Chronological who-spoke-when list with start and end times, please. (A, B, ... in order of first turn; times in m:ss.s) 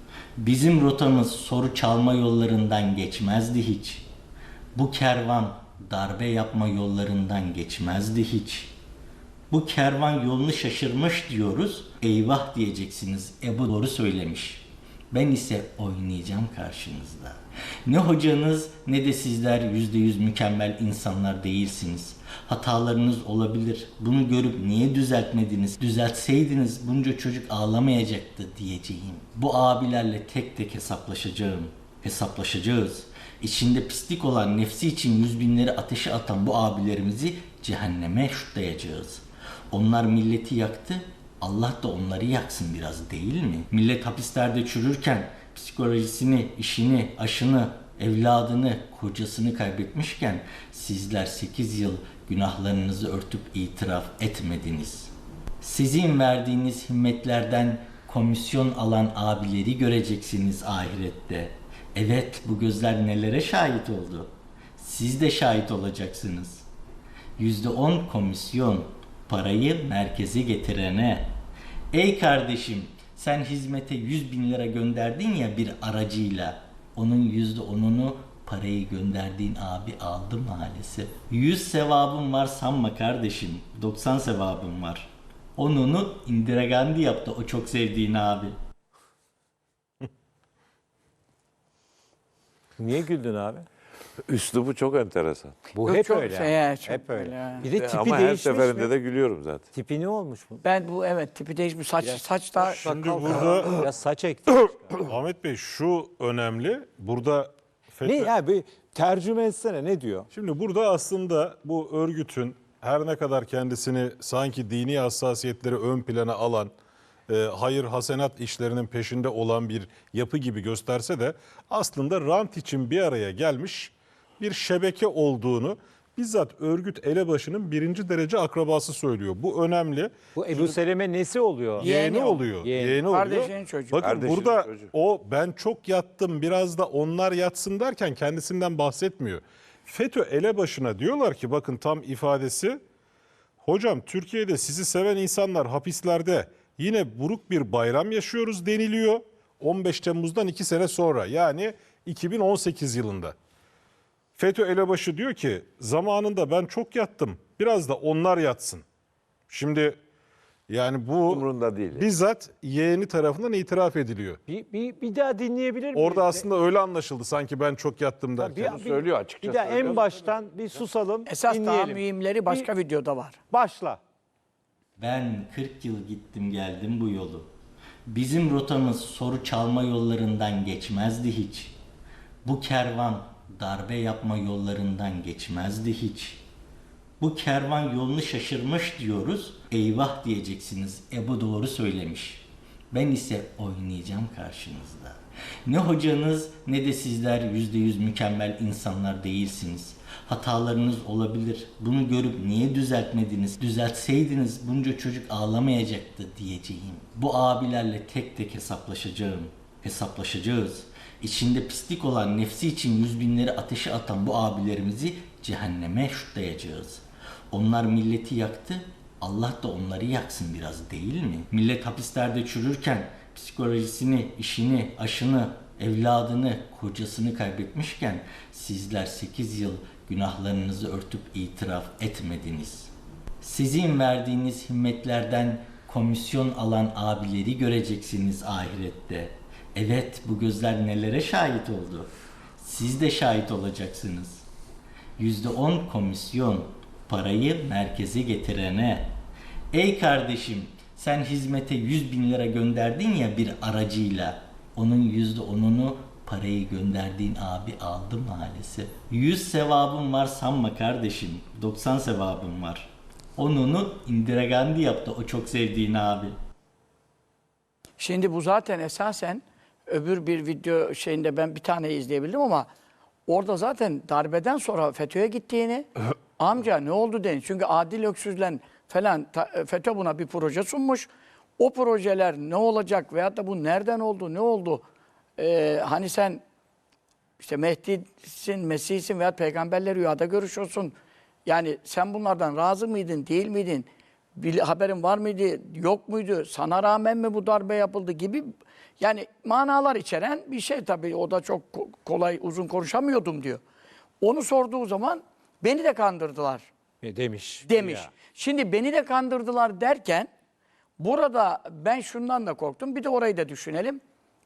0:00.4-0:04.0 A
0:04.8-0:08.7 A
0:09.5-0:55.1 A
0:55.6-1:06.6 A
1:07.4-1:11.3 A
1:11.9-1:28.5 A
1:32.8-1:33.6 B
1:34.2-1:35.6 C
1:35.7-1:38.9 B
1:35.8-1:37.8 D
1:37.8-1:39.6 C
1:39.7-1:40.6 B
1:40.6-1:42.9 D
1:42.0-1:45.0 B
1:42.9-1:43.7 E
1:45.1-1:48.3 E
1:48.0-1:50.3 B
1:50.3-1:56.7 E
1:57.3-2:10.7 E
2:10.3-2:11.9 B
2:11.8-2:12.4 D
2:11.8-2:22.8 E
2:12.6-2:13.0 B
2:13.1-2:14.2 D
2:14.0-2:14.9 C
2:23.6-2:33.4 E
2:34.4-2:38.8 E
2:39.5-2:40.0 E
2:40.7-2:41.4 E
2:41.3-2:42.0 C
2:42.0-2:44.4 E
2:44.5-2:46.4 B
2:46.0-2:46.8 A
2:46.0-2:48.8 E
2:48.4-2:52.7 B
2:48.6-2:50.1 C
2:51.3-2:53.4 D
2:53.5-2:54.0 B
2:55.0-2:57.5 A
2:58.1-3:01.8 A
3:02.4-3:06.4 A
3:07.2-3:52.9 A
3:53.4-4:02.1 A
4:02.6-4:04.4 A
4:05.2-4:09.1 A
4:09.7-4:26.3 A
4:28.0-4:32.7 D
4:33.3-4:41.1 D
4:41.6-4:44.8 D
4:45.4-4:46.4 D
4:47.4-5:03.6 D
5:04.2-5:06.7 D
5:07.0-5:08.1 B
5:07.7-5:10.3 D
5:11.0-5:14.0 D